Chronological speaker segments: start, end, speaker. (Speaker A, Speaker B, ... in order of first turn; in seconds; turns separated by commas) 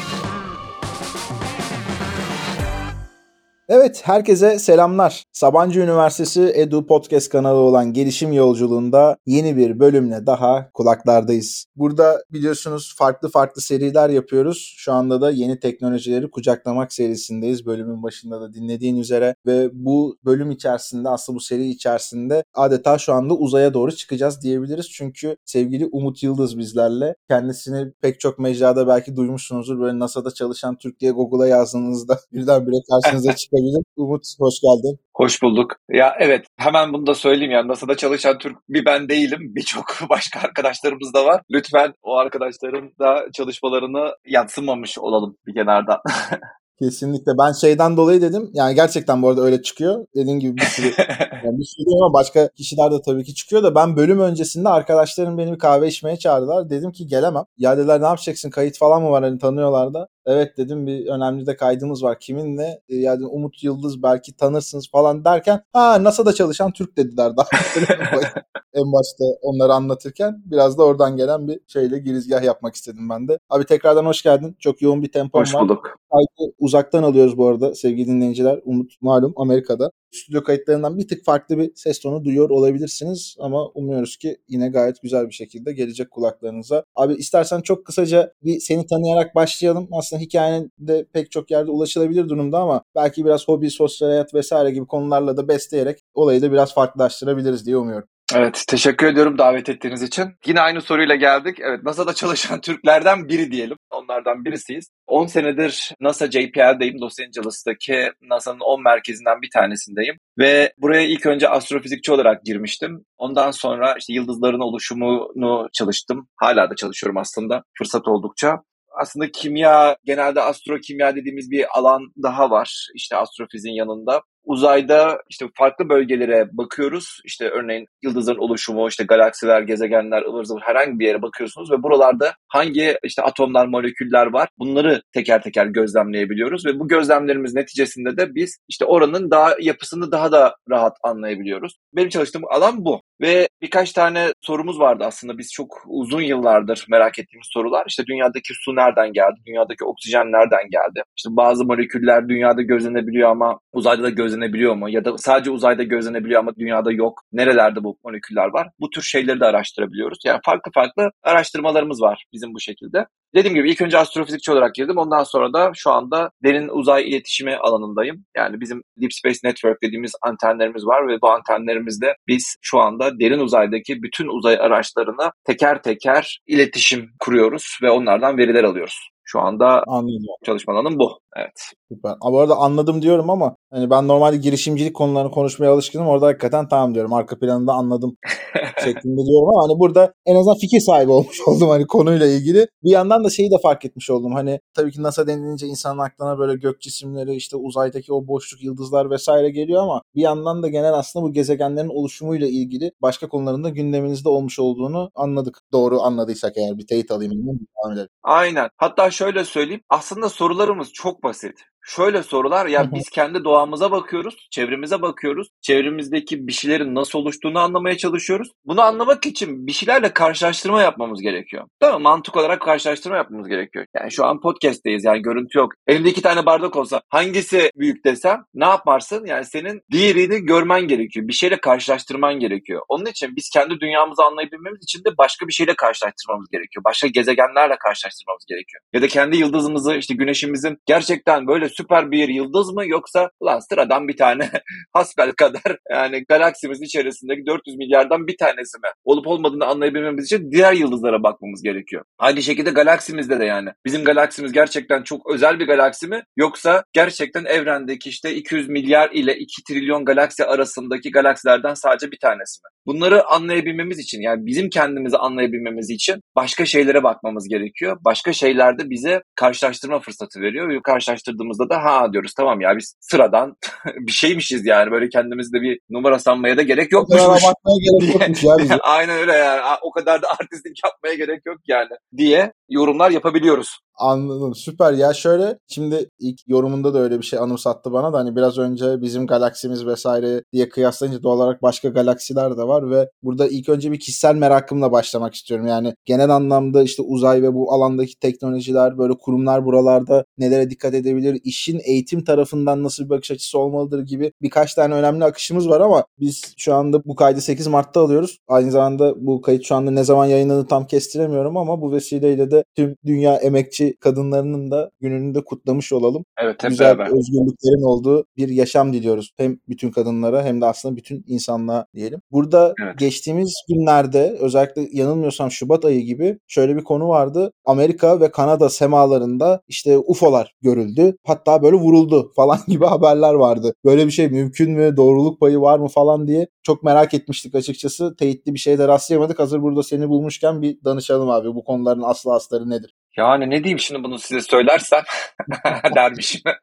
Speaker A: 3.7-35.0, Speaker B: 35.2-46.4, Speaker A: 46.8-98.1, Speaker B: 50.7-51.4, Speaker B: 68.0-68.4, Speaker B: 75.3-75.9, Speaker B: 98.3-179.9, Speaker A: 179.9-180.4, Speaker B: 180.4-181.7, Speaker A: 181.9-188.2, Speaker B: 188.6-188.9, Speaker A: 188.8-208.1, Speaker B: 208.2-283.8, Speaker A: 212.8-213.0, Speaker A: 277.0-278.8, Speaker A: 284.0-342.9, Speaker B: 316.4-317.1, Speaker B: 322.8-323.0, Speaker B: 343.1-346.5, Speaker A: 345.7-346.0